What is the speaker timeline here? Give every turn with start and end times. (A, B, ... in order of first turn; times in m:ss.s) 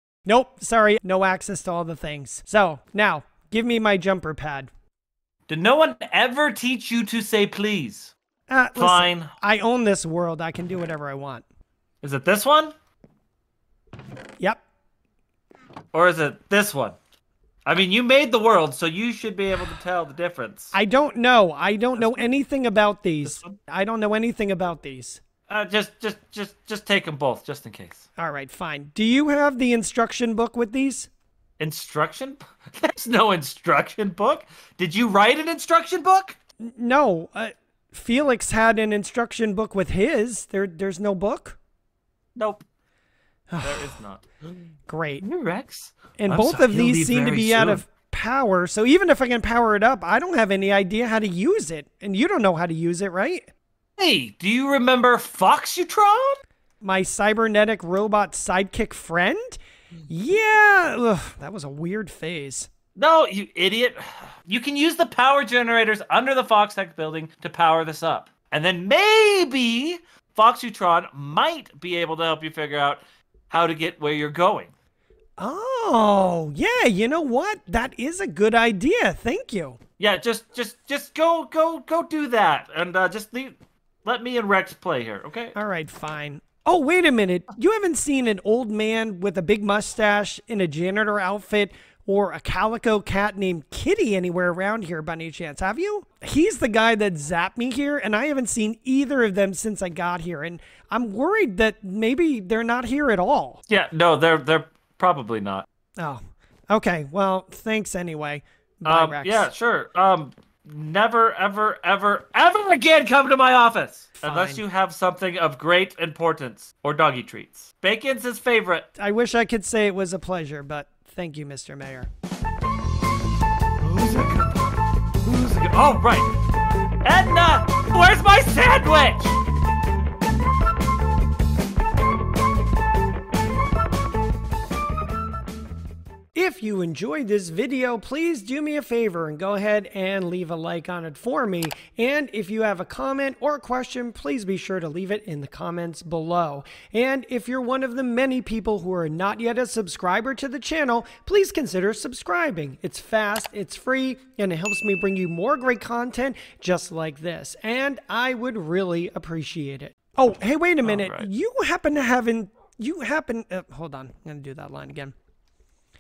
0:00.3-0:04.7 A
0:05.5-0:08.1 B
0:08.5-0:11.4 A
0:08.8-0:09.3 B
0:12.0-0:12.7 B
0:15.9-0:17.0 B
0:17.7-0:20.7 B
0:20.7-0:25.2 A
0:22.0-0:22.3 B
0:23.2-0:23.6 B
0:25.5-0:28.0 B
0:28.2-0:31.1 A
0:31.6-0:36.4 B
0:36.6-0:41.6 A
0:42.4-0:42.6 B
0:43.5-0:44.0 A
0:43.6-0:44.3 B
0:44.9-0:45.2 A
0:45.2-0:47.8 B
0:46.2-0:53.5 A
0:54.0-0:56.4 B
0:56.8-1:02.7 A
1:03.0-1:14.7 B
1:15.4-1:19.8 A
1:20.0-1:25.6 B
1:25.6-1:43.6 A
1:43.7-1:45.7 B
1:46.0-1:49.5 A
1:48.8-1:58.9 B
1:54.2-1:54.6 A
1:59.0-2:02.1 A
2:03.8-2:06.3 B
2:07.0-2:09.4 B
2:16.3-2:45.2 A
2:40.8-2:41.3 B